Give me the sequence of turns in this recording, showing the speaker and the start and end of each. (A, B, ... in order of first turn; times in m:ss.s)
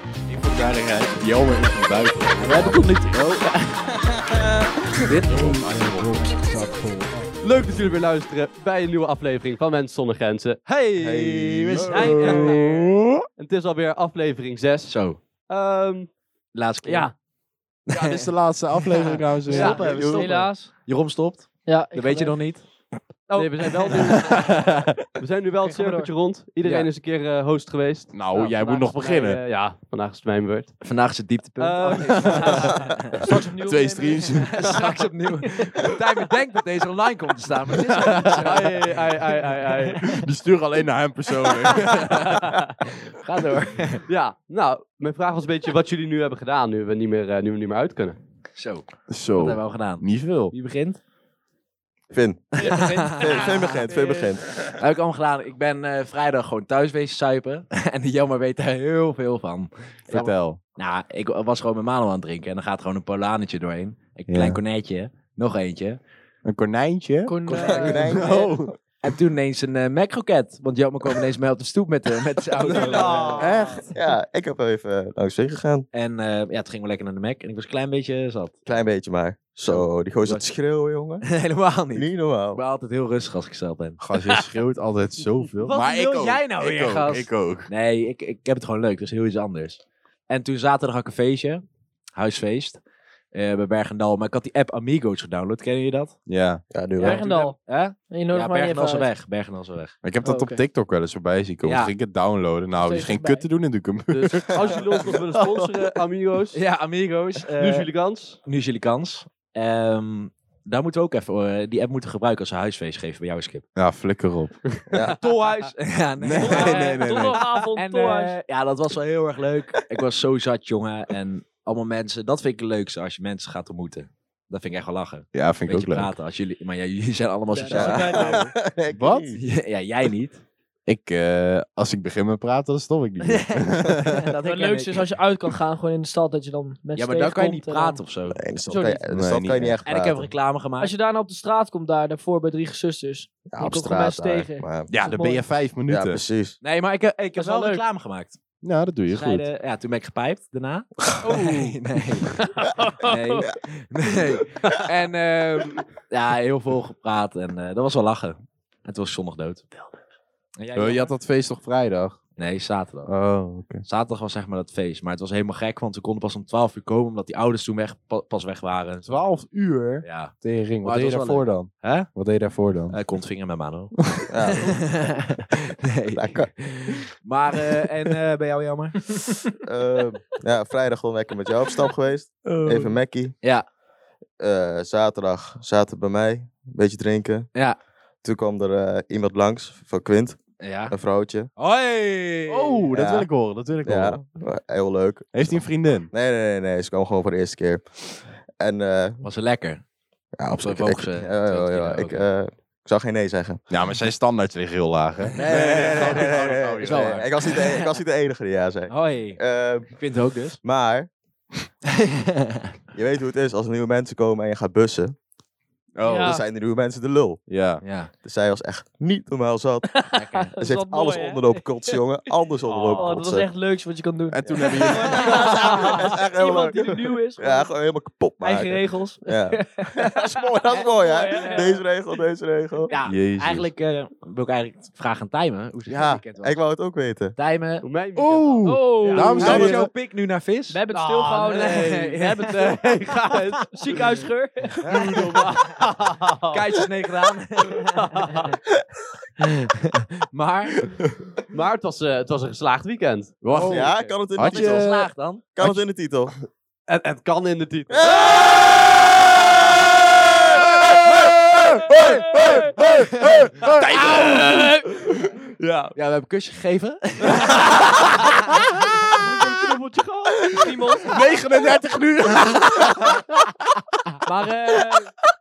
0:00.3-0:02.9 A
0:02.4-0:04.2 B
0:05.1-0:07.4 B
0:05.1-0:06.4 A
0:07.4-0:10.6 C
0:10.7-0:12.6 B
0:11.0-0:12.1 D
0:11.8-0:15.0 C
0:11.8-0:13.2 A
0:14.9-0:15.2 B
0:15.5-0:16.1 C
0:16.5-0:17.1 B
0:16.8-0:17.1 C
0:17.9-0:19.8 A
0:17.9-0:22.7 B
0:19.5-0:20.7 E
0:19.5-0:19.9 C
0:19.8-0:20.4 D
0:21.7-0:22.4 E
0:23.3-0:24.6 C
0:23.4-0:24.3 B
0:24.4-0:25.0 A
0:25.2-0:30.8 C
0:25.7-0:26.1 E
0:26.6-0:26.9 B
0:28.1-0:29.4 A
0:30.8-0:33.2 B
0:31.6-0:32.8 C
0:32.1-0:34.8 A
0:33.1-0:35.7 E
0:34.4-0:38.9 B
0:38.1-0:38.4 A
0:38.2-0:40.2 C
0:40.0-0:42.5 A
0:41.7-0:44.0 B
0:42.2-0:42.7 C
0:44.1-0:48.2 C
0:48.6-0:51.0 B
0:49.1-0:50.5 A
0:52.1-0:54.4 D
0:52.6-0:54.3 E
0:52.6-0:53.8 B
0:54.7-1:06.0 B
1:00.1-1:00.6 A
1:04.3-1:04.6 A
1:06.4-1:08.8 A
1:07.3-1:08.1 E
1:07.5-1:08.2 B
1:07.6-1:08.8 D
1:09.0-1:13.5 B
1:12.7-1:13.6 C
1:13.4-1:13.9 A
1:13.9-1:15.9 D
1:15.9-1:18.6 B
1:18.7-1:21.3 D
1:19.7-1:20.5 B
1:21.2-1:24.0 B
1:22.0-1:22.6 D
1:24.0-1:27.7 A
1:25.6-1:31.6 B
1:32.2-1:32.8 B
1:33.3-1:36.2 B
1:36.3-1:36.6 A
1:36.7-1:37.2 D
1:37.0-1:37.6 E
1:37.0-1:40.0 B
1:38.1-1:39.1 E
1:40.0-1:45.1 A
1:40.2-1:40.6 E
1:41.6-1:42.0 B
1:42.8-1:43.5 E
1:44.1-1:46.6 C
1:44.5-1:44.8 D
1:46.5-1:47.9 B
1:47.5-1:48.4 C
1:48.4-1:53.6 B
1:53.8-1:54.6 A
1:54.9-1:55.2 D
1:54.9-1:55.2 C
1:55.1-1:57.0 B
1:56.2-1:57.4 A
1:56.4-1:58.4 E
1:57.8-2:08.5 B
2:05.3-2:06.2 A
2:07.5-2:08.4 E
2:07.7-2:09.4 D
2:08.9-2:09.3 A
2:09.4-2:10.4 B
2:10.9-2:14.4 A
2:13.2-2:15.1 B
2:14.5-2:18.0 E
2:17.0-2:18.4 B
2:18.3-2:20.3 D
2:18.7-2:19.1 E
2:19.1-2:19.8 A
2:19.9-2:20.9 B
2:20.8-2:25.5 E
2:23.5-2:24.9 D
2:24.9-2:26.2 A
2:25.9-2:26.6 D
2:26.6-2:28.4 B
2:27.4-2:27.8 E
2:28.6-2:29.5 A
2:29.1-2:32.4 B
2:31.2-2:31.7 E
2:32.2-2:33.5 E
2:33.0-2:39.7 B
2:40.6-2:41.1 B
2:40.8-2:42.2 A
2:42.4-2:43.1 B
2:43.1-2:43.8 A
2:43.8-2:49.2 B
2:49.0-2:53.0 A
2:50.0-2:52.1 B
2:52.9-2:59.2 B
2:54.3-2:55.1 D
2:56.1-2:56.5 D
2:59.6-3:03.3 D
3:02.5-3:03.0 A
3:04.4-3:07.5 D
3:08.2-3:11.5 D
3:10.6-3:11.0 B
3:11.6-3:12.9 B
3:12.5-3:14.2 A
3:12.9-3:13.3 D
3:13.8-3:17.9 D
3:15.3-3:16.1 A
3:18.6-3:19.2 D
3:19.2-3:19.8 B
3:20.4-3:23.6 D
3:20.6-3:22.3 B
3:23.7-3:27.6 A
3:25.3-3:27.9 B
3:25.4-3:29.9 D
3:28.9-3:29.4 B
3:29.9-3:30.6 B
3:30.6-3:31.1 D
3:32.3-3:32.6 B
3:32.9-3:35.1 D
3:36.0-3:36.4 A
3:36.0-3:36.4 E
3:36.1-3:37.4 D
3:37.5-3:37.8 A
3:37.8-3:38.1 B
3:38.2-3:39.9 D
3:40.0-3:41.6 E
3:40.2-3:40.5 B
3:40.5-3:43.5 D
3:42.7-3:43.2 C
3:43.0-3:47.7 E
3:44.3-3:45.8 A
3:44.5-3:52.9 D
3:48.4-3:51.8 E
3:52.9-3:56.6 B
3:53.0-3:53.7 A
3:55.9-3:57.4 D
3:57.4-3:57.8 B
3:57.8-3:59.4 C
3:58.2-3:59.9 A
3:58.6-3:59.8 E
3:59.3-4:00.8 B
3:59.4-3:59.8 D
4:00.7-4:02.2 E
4:00.9-4:04.1 C
4:01.4-4:03.4 B
4:03.7-4:04.9 E
4:04.8-4:05.8 B
4:04.9-4:06.8 C
4:06.5-4:08.5 B
4:07.8-4:08.6 C
4:09.4-4:10.9 B
4:11.5-4:14.2 C
4:13.4-4:15.8 A
4:13.5-4:13.8 B
4:13.7-4:14.9 D
4:14.4-4:15.4 B
4:15.6-4:16.3 D
4:16.9-4:18.7 C
4:17.9-4:18.7 D
4:20.6-4:25.3 A
4:22.4-4:22.8 E
4:23.6-4:24.9 C
4:25.5-4:25.9 C
4:26.0-4:28.2 B
4:27.3-4:28.3 C
4:28.5-4:29.0 A
4:29.0-4:30.6 C
4:30.4-4:34.2 A
4:30.5-4:31.4 E
4:34.2-4:35.1 E